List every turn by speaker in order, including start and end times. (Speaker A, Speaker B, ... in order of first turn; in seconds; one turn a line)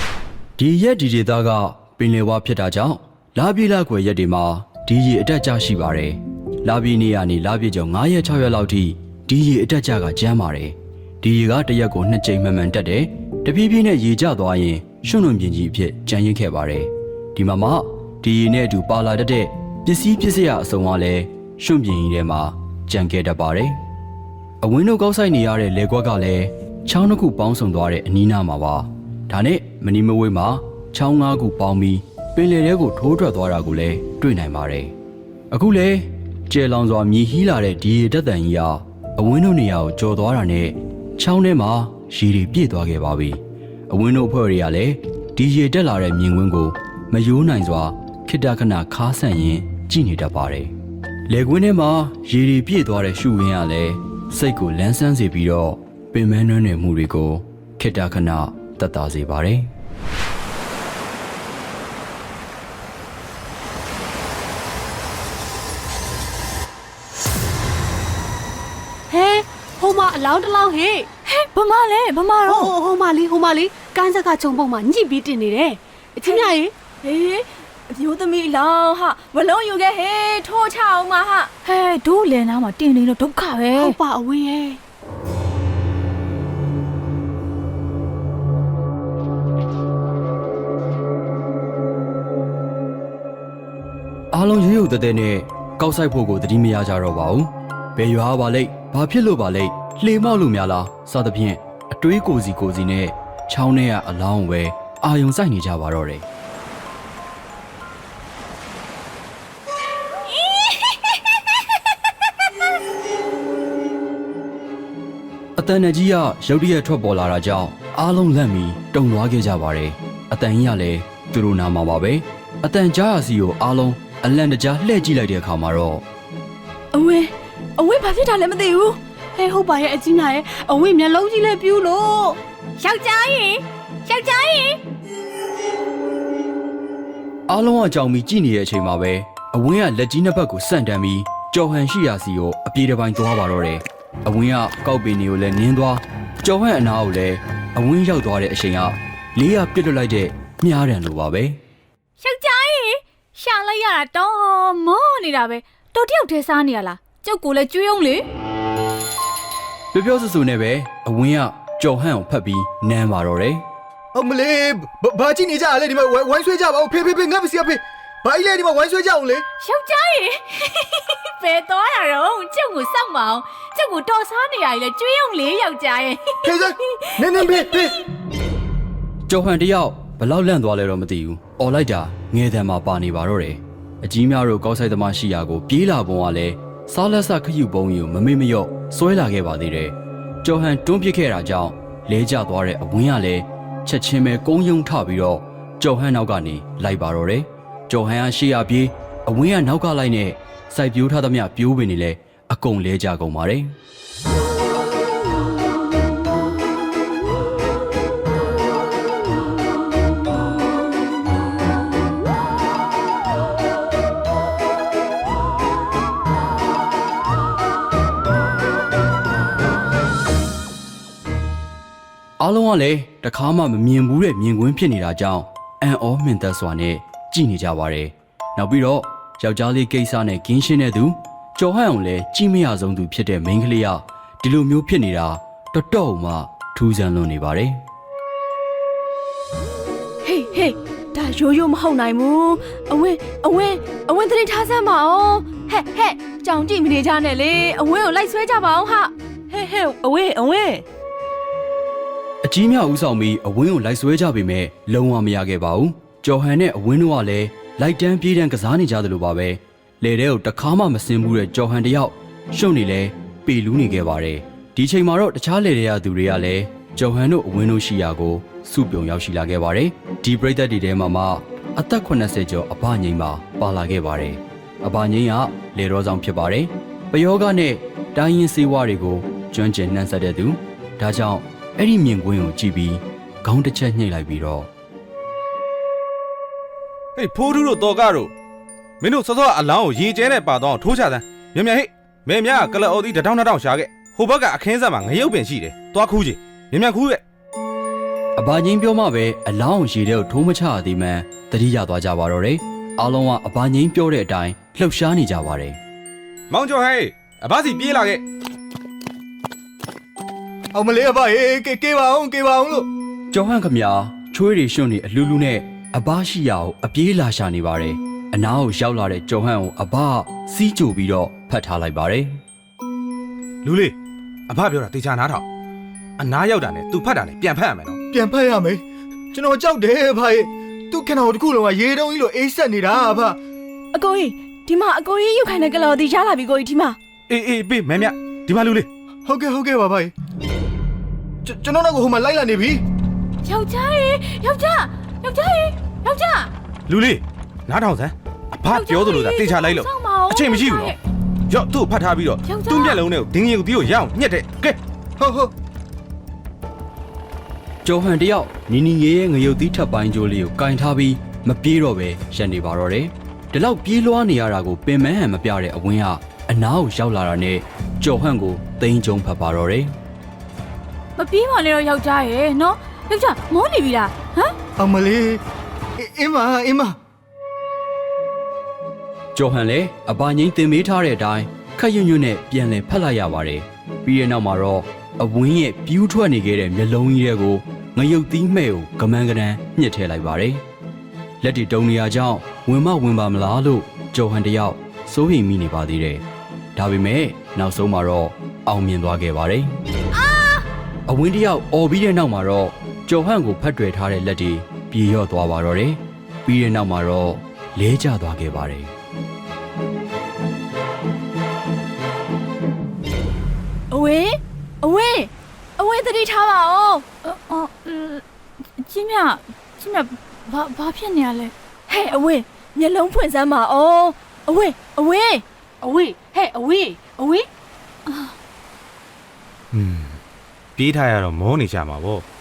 Speaker A: 0.6-23.8
Speaker A: 24.6-34.9
Speaker A: 35.5-43.4
Speaker A: 43.9-50.7
Speaker A: 51.3-59.7
Speaker B: 69.1-71.1
Speaker C: 71.3-72.7
Speaker B: 72.4-76.7
Speaker D: 77.0-81.5
Speaker C: 81.6-84.0
Speaker B: 83.8-84.8
Speaker A: 94.3-106.2
Speaker A: 115.6-126.0
Speaker D: 126.9-129.0
Speaker B: 129.3-132.4
Speaker C: 132.8-134.8
Speaker A: 137.5-151.6
Speaker C: 152.2-158.2
Speaker A: 159.9-163.6
Speaker E: 164.1-169.4
Speaker C: 169.6-177.9
Speaker E: 176.4-177.9
Speaker A: 179.3-203.8
Speaker A: 222.4-237.8
Speaker D: 240.2-250.8
Speaker A: 252.4-284.7
Speaker F: 287.1-288.3
Speaker F: 289.0-297.2
Speaker A: 298.4-305.8
Speaker F: 306.5-308.2
Speaker E: 310.7-312.9
Speaker A: 313.3-322.4
Speaker F: 323.6-323.9
Speaker F: 324.5-325.4
Speaker F: 326.2-328.0
Speaker E: 328.1-333.4
Speaker D: 333.9-337.0
Speaker F: 337.3-338.9
Speaker E: 339.2-340.1
Speaker E: 341.4-342.8
Speaker C: 343.4-346.5
Speaker F: 346.9-351.0
Speaker C: 348.7-351.0
Speaker F: 351.5-354.8
Speaker C: 352.4-353.0
Speaker E: 355.2-355.5
Speaker A: 357.8-369.9
Speaker C: 371.2-374.5
Speaker E: 374.8-375.4
Speaker E: 376.0-376.9
Speaker A: 379.3-390.6
Speaker A: 391.4-396.2
Speaker A: 396.8-399.7
Speaker C: 400.2-400.6
Speaker A: 401.1-408.9
Speaker D: 413.9-417.1
Speaker C: 417.2-418.2
Speaker C: 418.8-421.5
Speaker D: 421.9-425.4
Speaker B: 425.8-427.5
Speaker C: 428.1-428.3
Speaker F: 429.7-430.2
Speaker F: 430.8-432.2